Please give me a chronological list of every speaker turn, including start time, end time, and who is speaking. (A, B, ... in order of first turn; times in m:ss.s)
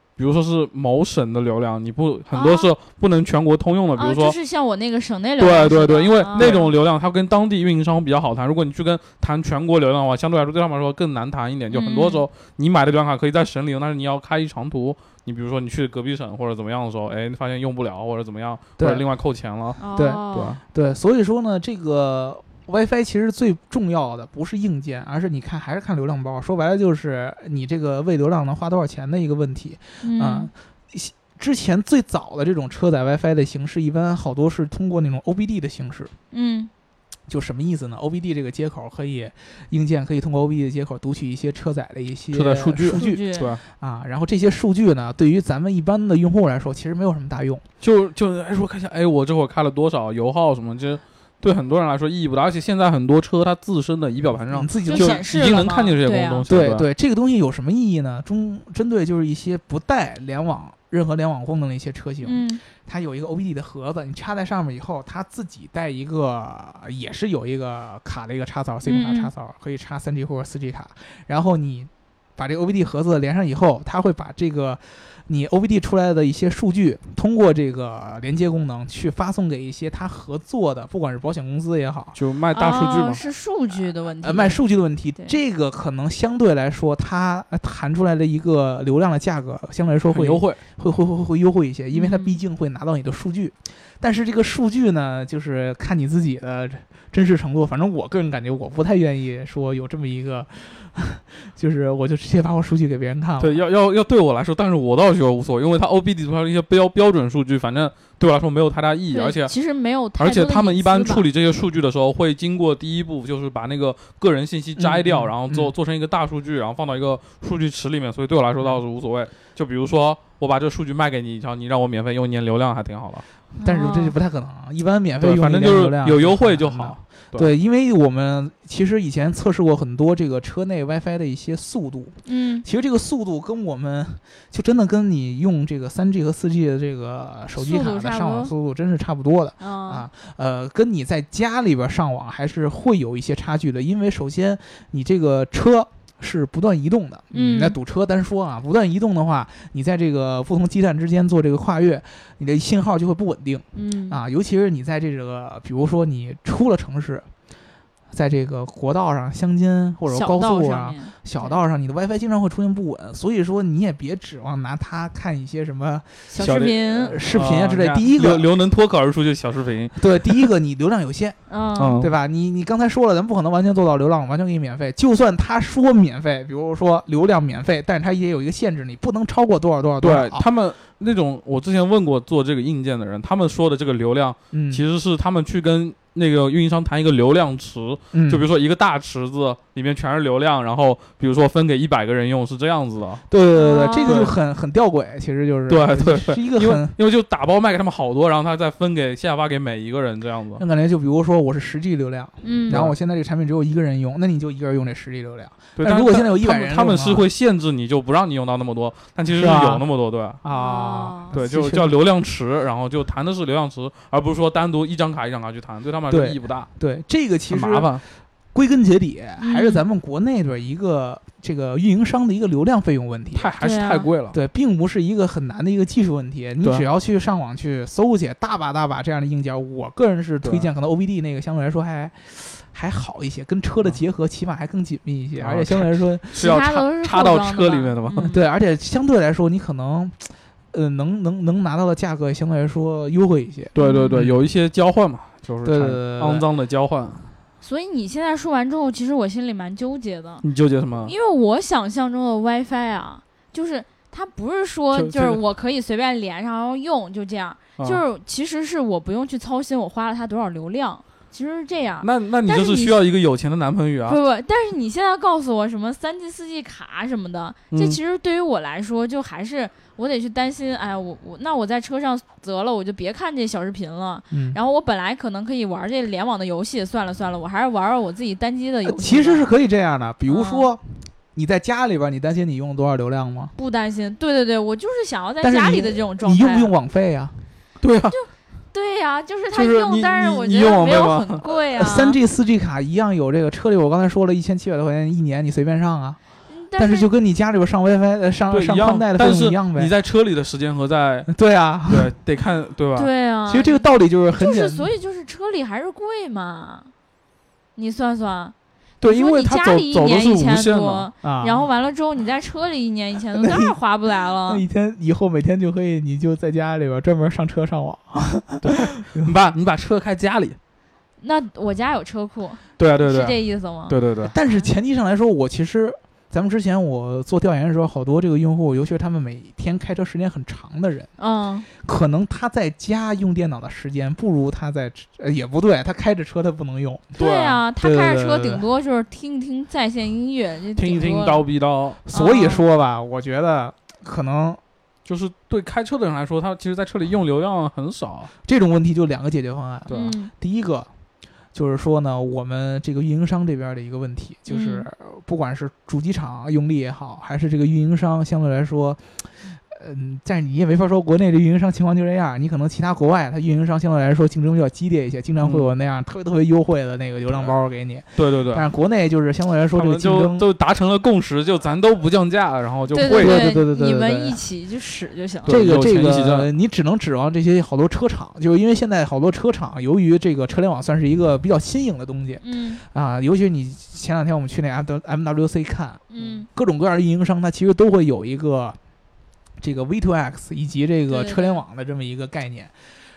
0:00.2-0:04.4 A
0:02.3-0:02.7 B
0:04.0-0:06.7 B
0:05.4-0:19.8 A
0:06.4-0:06.6 C
0:11.7-0:12.2 B
0:18.8-0:19.0 C
0:19.8-0:20.6 B
0:20.0-0:36.1 C
0:20.3-0:20.6 A
0:30.0-0:30.5 B
0:36.3-0:36.7 B
0:37.3-0:47.6 C
0:42.3-0:43.6 A
0:42.8-0:43.5 B
0:47.8-0:56.9 A
0:54.5-0:55.3 C
0:54.9-0:56.4 B
0:56.5-1:22.2 C
1:02.2-1:02.6 B
1:08.8-1:09.3 B
1:22.2-1:23.2 A
1:22.5-1:24.6 B
1:24.2-1:43.6 C
1:30.1-1:30.6 A
1:31.9-1:32.4 B
1:43.4-1:49.5 A
1:49.1-1:51.3 B
1:50.2-2:03.2 A
1:54.8-1:55.7 C
2:03.6-2:04.2 B
2:03.6-2:37.3 C
2:05.2-2:07.5 A
2:12.3-2:12.6 B
2:17.6-2:18.5 B
2:19.6-2:20.1 B
2:27.3-2:27.8 B
2:33.7-2:34.2 B
2:38.1-2:48.5 C
2:40.1-2:41.6 B
2:46.3-2:47.2 B
2:46.4-2:50.5 A
2:50.0-2:51.4 C
2:51.5-2:52.0 B
2:51.8-2:52.1 A
2:52.0-3:00.5 C
3:00.0-3:13.2 A
3:04.5-3:04.8 C
3:08.1-3:08.5 C
3:13.3-3:17.0 C
3:13.6-3:14.3 B
3:14.0-3:14.4 A
3:15.7-3:20.6 A
3:20.6-3:27.3 C
3:22.4-3:22.8 B
3:22.7-3:23.0 A
3:25.8-3:30.4 A
3:29.3-3:29.8 C
3:30.4-3:32.0 C
3:30.5-3:31.4 B
3:31.3-3:36.7 A
3:36.1-3:43.6 C
3:37.5-3:38.0 A
3:39.4-3:39.8 B
3:43.4-3:44.4 A
3:43.6-3:44.1 B
3:44.3-3:56.5 C
3:50.4-3:50.7 A
3:55.4-3:58.3 A
3:56.3-3:58.4 B
3:58.2-4:04.4 C
4:03.8-4:07.2 A
4:03.8-4:04.2 B
4:05.6-4:06.5 C
4:07.6-4:10.4 B
4:10.4-4:11.1 A
4:11.0-4:23.0 B
4:14.9-4:15.4 A
4:22.0-4:24.2 A
4:24.1-4:39.5 B
4:27.7-4:28.0 A
4:34.3-4:34.6 C
4:38.8-4:43.5 C
4:40.3-4:40.7 B
4:43.6-4:46.7 B
4:45.4-4:47.4 C
4:47.8-4:48.2 A
4:48.1-4:52.2 B
4:49.5-4:51.4 A
4:51.8-4:56.2 C
4:56.5-4:57.1 B
4:56.8-4:59.9 C
4:58.5-5:01.3 A
5:01.3-5:02.1 C
5:01.9-5:03.1 A
5:03.0-5:06.9 B
5:03.5-5:04.9 C
5:07.8-5:14.6 B
5:09.0-5:11.1 A
5:11.2-5:11.7 C
5:13.4-5:13.8 C
5:14.4-5:19.3 C
5:18.6-5:20.6 A
5:21.2-5:24.7 B
5:22.8-5:24.3 A
5:24.2-5:31.1 C
5:31.2-5:31.7 B
5:31.8-5:37.2 C
5:37.2-5:37.6 A
5:37.2-5:41.4 B
5:37.8-5:38.7 C
5:40.8-5:42.0 A
5:42.1-5:44.6 C
5:42.1-5:42.6 B
5:45.1-5:48.3 A
5:48.4-5:50.9 C
5:49.9-5:50.2 A
5:49.9-5:50.3 B
5:51.5-6:10.5 C
5:54.5-5:54.9 B
6:05.4-6:05.7 A
6:07.3-6:07.6 A
6:08.2-6:08.7 A
6:09.7-6:13.5 A
6:12.9-6:15.6 B
6:13.1-6:14.4 C
6:15.4-6:16.5 A
6:15.5-6:28.8 C
6:22.4-6:22.8 B
6:26.1-6:26.5 B
6:29.6-6:32.7 C
6:31.1-6:31.6 B